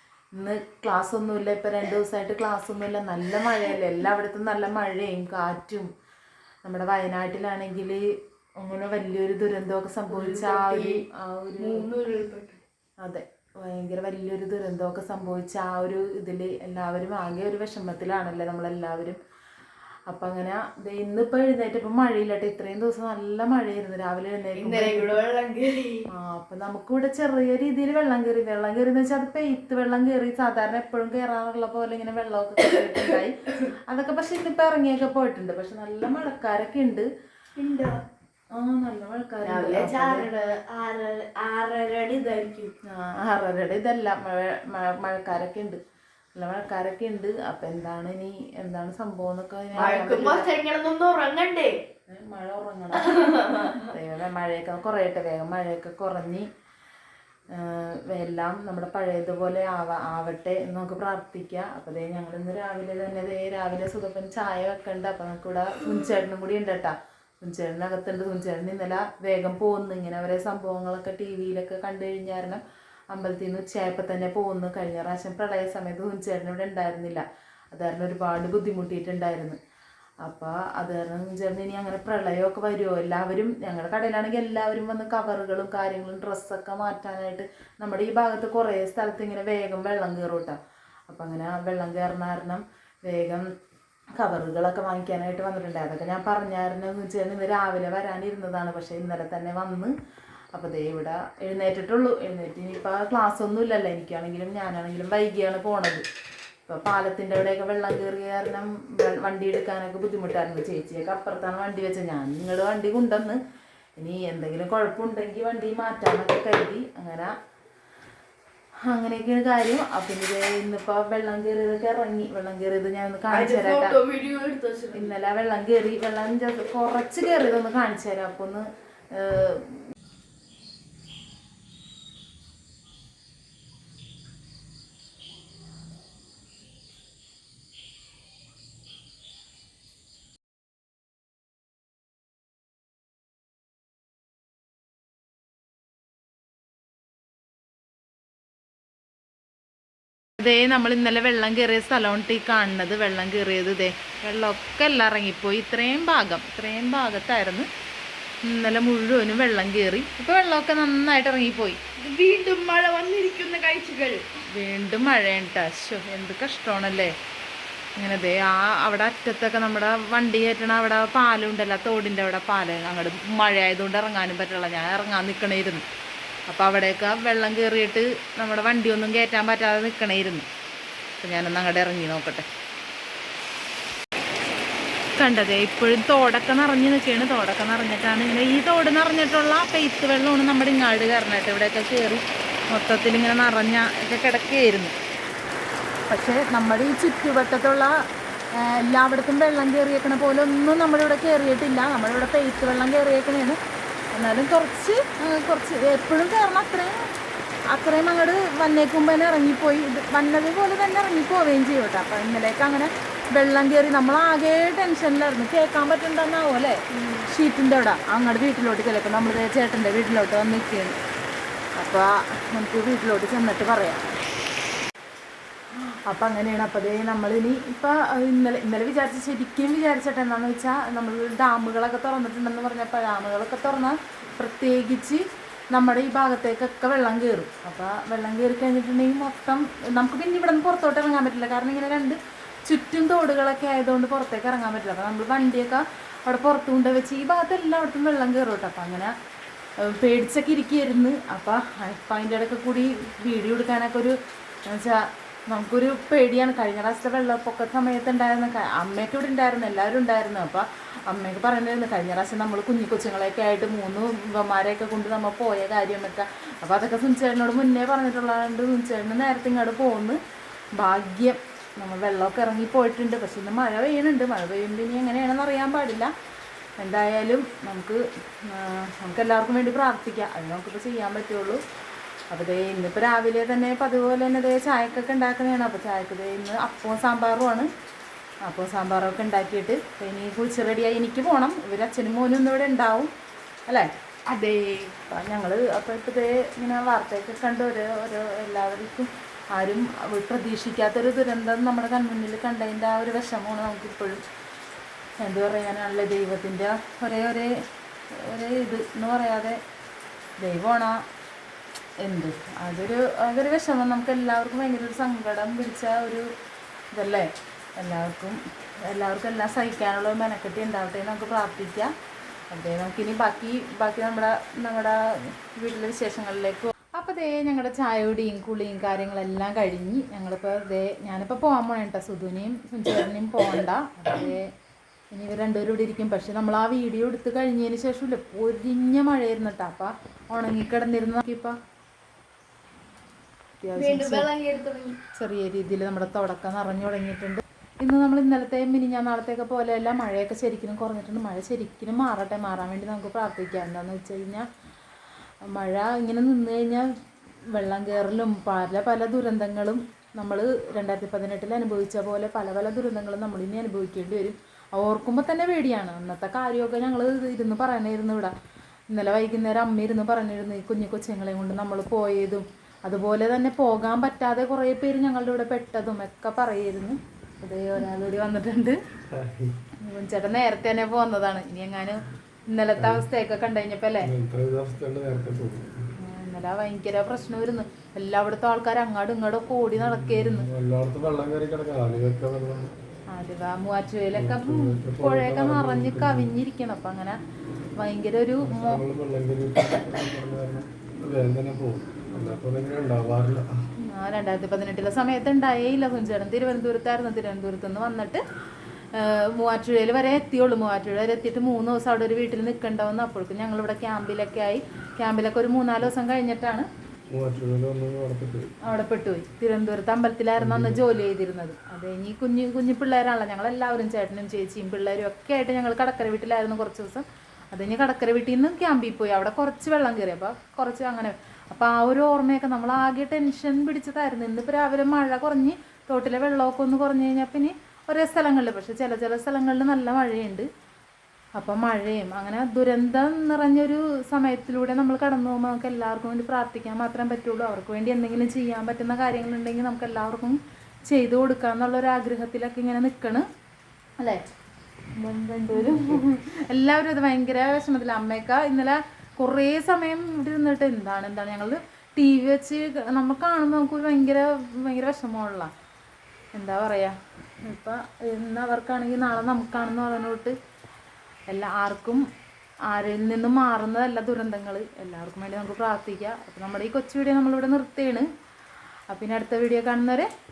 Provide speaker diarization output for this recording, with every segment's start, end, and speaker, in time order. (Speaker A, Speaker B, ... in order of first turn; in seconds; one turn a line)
Speaker A: 0.3-5.9
Speaker A: 6.6-11.9
Speaker B: 10.1-11.1
Speaker B: 11.6-12.6
Speaker A: 13.0-19.2
Speaker A: 20.1-25.2
Speaker B: 24.6-26.1
Speaker A: 26.1-37.1
Speaker B: 37.6-38.0
Speaker A: 38.5-40.3
Speaker B: 39.4-42.7
Speaker A: 42.9-45.8
Speaker A: 46.4-50.5
Speaker B: 49.7-51.8
Speaker A: 52.1-56.5
Speaker B: 53.0-53.8
Speaker A: 57.5-79.6
Speaker A: 80.2-93.5
Speaker A: 94.2-99.9
Speaker A: 100.5-106.0
Speaker A: 106.7-113.4
Speaker A: 114.0-117.3
Speaker A: 118.8-124.0
Speaker B: 123.3-125.1
Speaker A: 124.9-129.8
Speaker A: 150.4-157.7
Speaker A: 158.4-161.8
Speaker B: 162.0-164.2
Speaker A: 164.5-167.1
Speaker A: 168.0-175.8
Speaker A: 176.5-180.5
Speaker A: 181.2-182.5
Speaker A: 185.2-194.9
Speaker A: 196.1-197.9
Speaker A: 198.5-203.6
Speaker A: 204.1-207.1
Speaker A: 207.7-220.9
Speaker B: 216.9-217.3
Speaker A: 221.8-224.1
Speaker A: 225.8-249.1
Speaker A: 249.8-270.2
Speaker A: 270.7-276.1
Speaker A: 276.8-281.6
Speaker A: 282.3-287.7
Speaker A: 288.4-293.1
Speaker B: 294.3-294.9
Speaker A: 295.0-304.2
Speaker A: 305.2-307.5
Speaker A: 308.1-309.6
Speaker A: 310.4-311.0
Speaker A: 312.0-316.3
Speaker A: 316.9-321.9
Speaker A: 322.5-334.5
Speaker A: 335.1-341.6
Speaker A: 343.6-344.3
Speaker B: 343.8-345.0
Speaker A: 345.1-354.5
Speaker A: 355.4-356.9
Speaker A: 357.5-368.3
Speaker A: 368.9-378.8
Speaker C: 379.1-379.6
Speaker A: 379.8-384.1
Speaker C: 382.8-383.1
Speaker C: 384.0-385.7
Speaker A: 385.9-390.5
Speaker C: 389.8-392.7
Speaker A: 393.1-397.2
Speaker C: 394.1-396.3
Speaker A: 397.8-398.8
Speaker C: 398.4-403.5
Speaker A: 402.1-402.4
Speaker A: 403.8-408.2
Speaker A: 408.9-416.7
Speaker C: 417.1-418.5
Speaker A: 418.6-440.5
Speaker C: 420.4-420.8
Speaker A: 441.4-453.2
Speaker A: 454.9-465.5
Speaker A: 466.3-470.4
Speaker A: 471.3-472.0
Speaker A: 472.7-478.1
Speaker A: 478.9-480.1